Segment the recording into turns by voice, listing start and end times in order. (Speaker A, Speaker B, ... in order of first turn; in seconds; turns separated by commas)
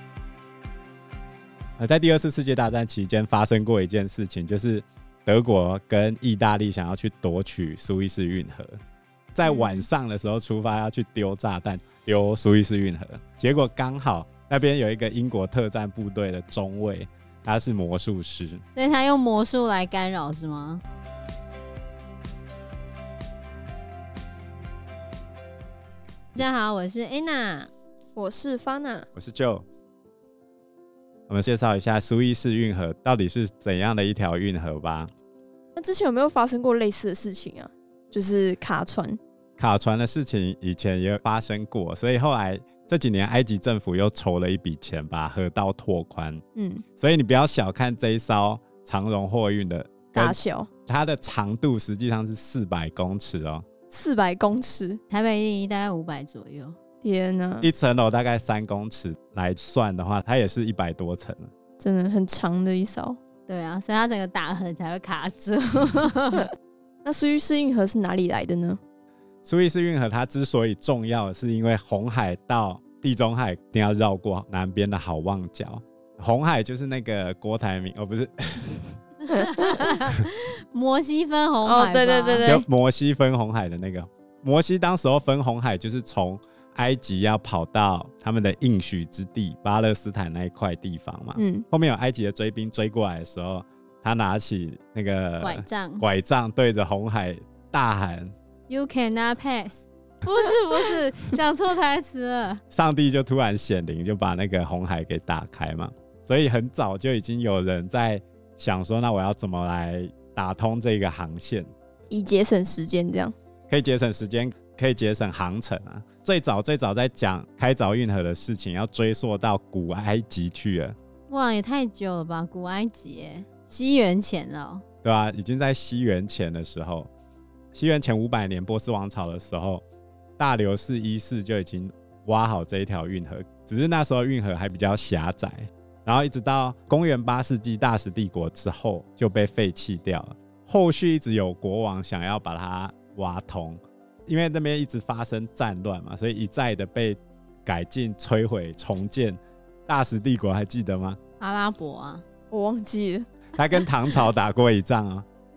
Speaker A: 1.8-8.8, Speaker A: 9.3-18.6, Speaker B: 18.7-20.8, Speaker B: 26.3-27.7, Speaker C: 28.1-29.1, Speaker A: 29.1-29.6, Speaker A: 31.3-35.1, Speaker C: 35.8-39.2, Speaker A: 39.6-46.4, Speaker C: 46.5-46.8, Speaker A: 47.0-53.6, Speaker C: 50.1-50.7, Speaker C: 53.9-55.0, Speaker B: 55.1-56.8, Speaker C: 57.0-57.7, Speaker A: 57.6-61.5, Speaker C: 61.8-63.2, Speaker B: 63.5-66.5, Speaker C: 67.0-68.8, Speaker A: 69.4-79.0, Speaker C: 79.3-79.9, Speaker B: 79.3-82.5, Speaker C: 81.6-82.6, Speaker A: 82.4-98.3, Speaker C: 91.3-91.6, Speaker B: 95.4-96.0, Speaker B: 98.7-102.6, Speaker A: 102.7-111.7, Speaker C: 112.1-113.3, Speaker A: 113.7-121.0, Speaker B: 121.3-124.8, Speaker A: 125.0-127.1, Speaker A: 127.7-129.8, Speaker A: 130.4-151.2, Speaker B: 151.4-152.2, Speaker C: 152.5-153.3, Speaker A: 153.6-155.2